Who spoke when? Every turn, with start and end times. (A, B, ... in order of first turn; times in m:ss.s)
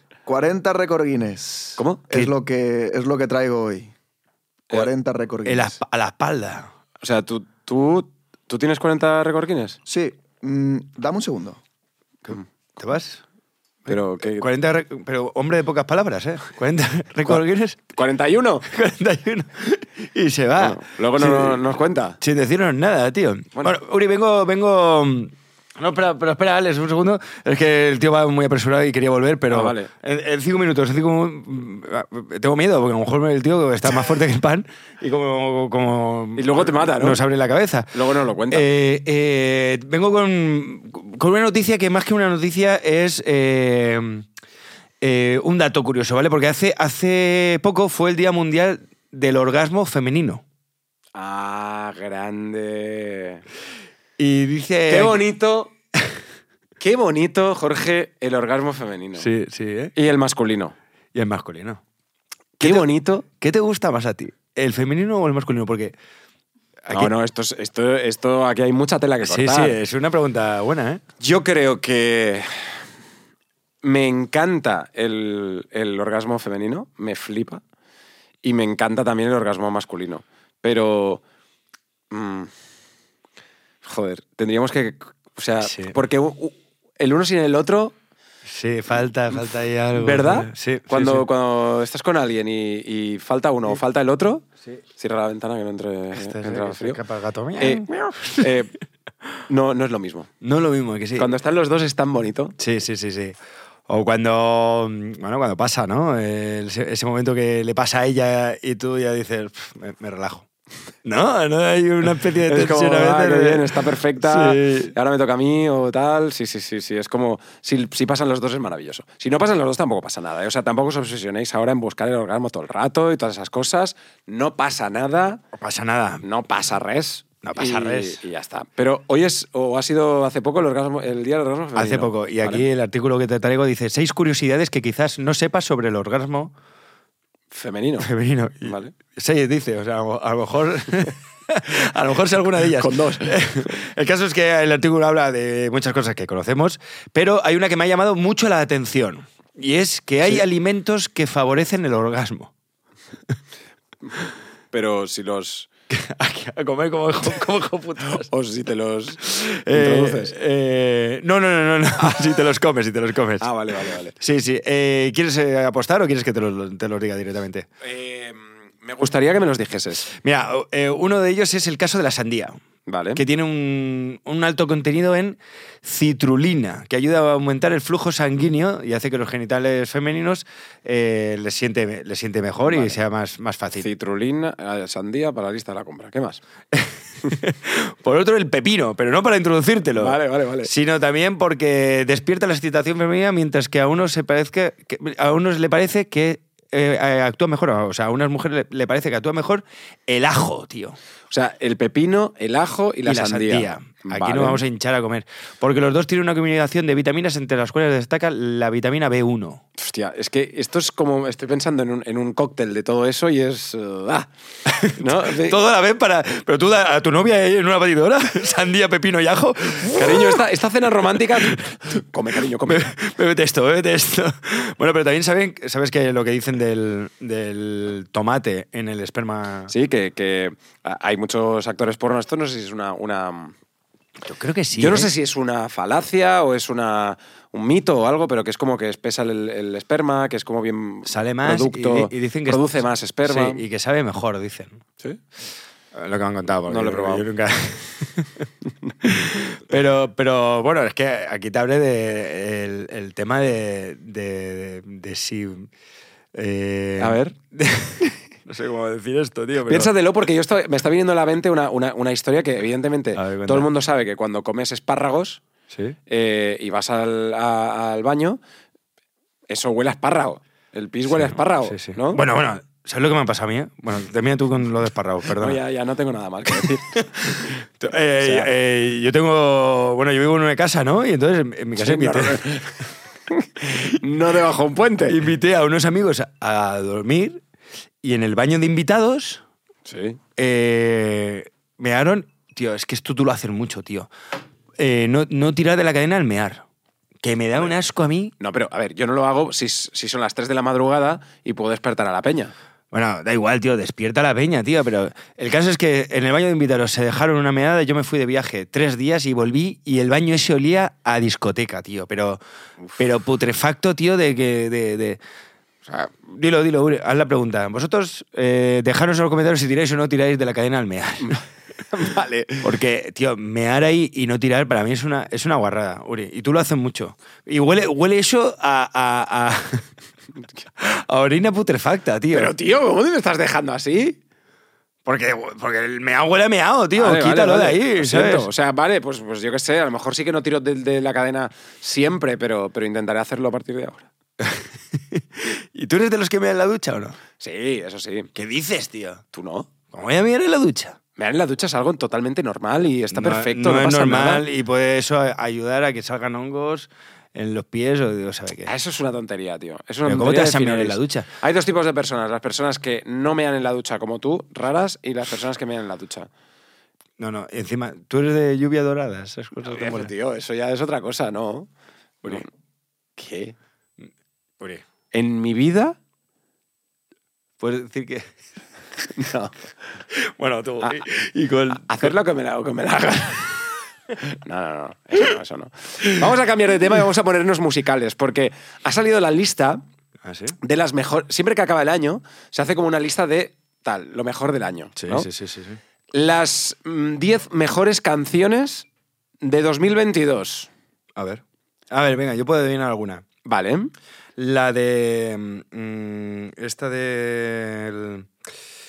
0:00.2-0:03.9 A
0:04.7-0:05.8 A
0:05.4-0:06.7 B
0:07.0-0:09.8 C
0:09.9-0:11.6 A
0:12.2-0:13.2 B
0:13.9-0:14.5 C
0:13.9-0:17.9 B
0:17.9-0:18.7 C
0:18.7-0:21.6 B
0:20.6-0:22.2 C
0:22.2-0:37.9 B
0:29.5-0:29.9 C
0:36.4-0:37.2 C
0:37.9-0:38.7 C
0:38.5-0:44.2 B
0:45.0-0:50.4 B
0:51.1-0:53.4 C
0:54.2-0:55.2 B
0:54.9-0:55.7 C
0:55.9-0:56.2 B
0:56.8-0:59.3 C
0:59.2-0:59.9 B
0:59.9-1:00.7 C
1:01.1-1:01.8 B
1:02.6-1:03.2 C
1:02.6-1:05.9 B
1:06.8-1:07.1 B
1:06.9-1:09.8 C
1:09.2-1:11.0 B
1:11.2-1:12.8 C
1:13.8-1:17.6 C
1:18.4-1:21.2 C
1:22.1-1:22.5 C
1:23.8-1:27.9 C
1:25.6-1:25.9 B
1:28.4-1:31.2 B
1:29.9-1:37.0 C
1:36.1-1:38.5 B
1:37.6-1:38.7 C
1:39.5-1:40.3 C
1:40.4-1:41.3 B
1:41.2-1:42.6 C
1:42.6-1:43.4 B
1:43.9-1:50.5 B
1:51.0-1:54.9 B
1:52.1-2:05.4 C
2:05.6-2:06.2 B
2:06.2-2:12.6 C
2:07.4-2:08.2 B
2:11.8-2:16.5 B
2:17.5-2:18.1 C
2:18.0-2:32.5 B
2:18.6-2:19.0 C
2:22.7-2:23.7 C
2:34.7-2:35.7 C
2:35.9-2:38.3 B
2:38.1-2:40.3 C
2:39.2-2:43.5 B
2:43.4-2:44.2 C
2:44.2-2:47.7 B
2:47.8-2:50.1 C
2:50.0-2:52.6 B
2:52.9-2:53.2 C
2:53.2-3:03.9 B
3:02.7-3:03.0 C
3:03.8-3:06.4 C
3:06.7-3:21.0 B
3:10.0-3:10.7 C
3:21.3-3:24.6 C
3:23.0-3:29.6 B
3:29.8-3:34.3 C
3:34.7-3:40.4 B
3:34.9-3:35.6 C
3:39.8-3:42.9 C
3:41.4-3:42.0 B
3:42.7-3:49.7 B
3:49.7-3:53.6 C
3:54.2-3:55.1 B
3:54.8-4:03.6 C
4:01.0-4:04.8 B
4:05.9-4:08.5 B
4:06.7-4:07.2 C
4:09.0-4:15.7 B
4:16.3-4:19.9 B
4:17.0-4:17.4 C
4:19.7-4:25.4 C
4:23.1-4:23.7 B
4:25.7-4:26.0 B
4:26.1-4:28.4 C
4:29.5-4:32.2 C
4:31.1-4:35.6 B
4:35.4-4:37.0 C
4:36.6-4:42.4 B
4:38.2-4:38.5 C
4:41.8-4:45.2 C
4:45.1-4:47.4 B
4:48.0-4:49.4 B
4:49.8-4:50.2 C
4:50.4-4:54.1 B
4:54.8-4:56.6 B
4:57.2-4:58.3 B
4:58.4-5:02.5 C
5:02.9-5:12.4 B
5:13.0-5:15.2 B
5:16.2-5:21.4 B
5:21.2-5:22.7 C
5:22.6-5:29.9 B
5:30.8-5:32.5 B
5:32.3-5:34.2 C
5:35.1-5:38.5 B
5:37.0-5:44.1 C
5:44.4-5:47.2 B
5:47.4-5:48.3 C
5:48.3-5:49.2 B
5:49.3-5:49.7 C
5:49.9-5:51.0 B
5:51.2-5:54.4 C
5:53.1-5:58.7 B
5:58.6-6:06.3 C
6:00.0-6:01.3 B
6:07.2-6:10.1 B
6:09.6-6:11.7 C
6:13.2-6:13.5 C
6:15.1-6:16.0 C
6:17.6-6:18.3 B
6:19.1-6:19.5 C
6:20.1-6:22.1 B
6:21.8-6:23.6 C
6:24.4-6:29.8 C
6:30.2-6:30.5 B
6:30.6-6:35.3 C
6:35.0-6:35.8 B
6:36.1-6:38.9 C
6:39.4-6:40.7 C
6:41.2-6:43.2 B
6:43.4-6:43.9 C
6:44.4-6:48.3 B